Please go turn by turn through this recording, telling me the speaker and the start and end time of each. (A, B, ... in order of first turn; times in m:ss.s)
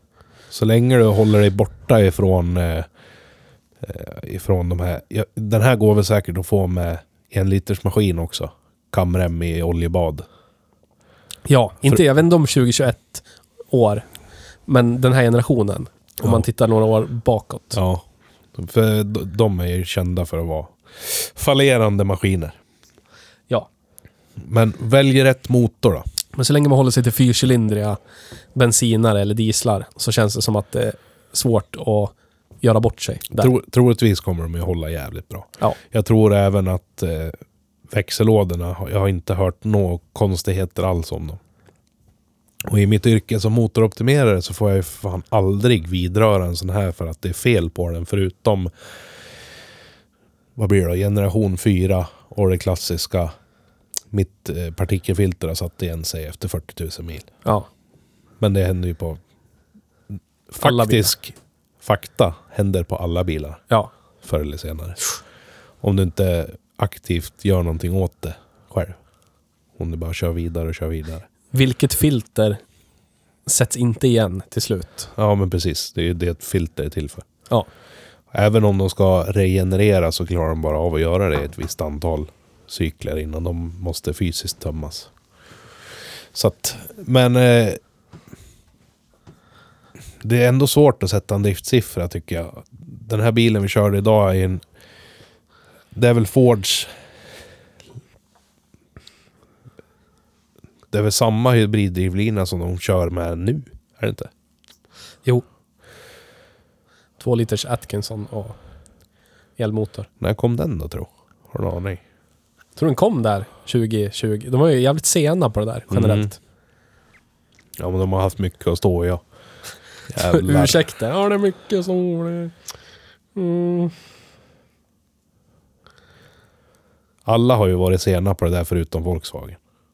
0:00.5-0:02.9 A
0:03.8-0:10.2 A
0:11.4-0:14.0 B
0:14.7-0:17.8 B
0:17.7-0:22.6 A
0:24.4-0:26.0 A
0:26.3-0:28.0 B
0:28.5-0:33.5 B
0:33.4-0:37.4 A
0:37.9-0:41.4 A
0:42.6-0:48.7 A
0:50.6-0:53.3 A
0:54.1-0:57.3 A
0:58.4-0:59.2 A
1:00.5-1:03.6 A
1:00.6-1:01.1 B
1:04.2-1:05.0 A
1:05.8-1:09.0 A
1:09.8-1:11.2 A
1:11.5-1:12.6 B
1:13.4-1:15.1 B
1:15.2-1:17.2 A
1:18.3-1:25.1 A
1:26.3-1:27.8 A
1:30.2-1:34.6 A
1:35.9-1:36.9 A
1:40.9-1:44.3 A
1:47.2-1:48.6 B
1:49.6-1:50.1 B
1:50.2-1:52.0 A
1:52.8-1:56.4 B
1:55.9-1:56.3 A
1:57.8-1:59.2 A
2:00.1-2:00.8 A
2:00.2-2:02.5 B
2:03.3-2:03.9 B
2:07.2-2:09.6 A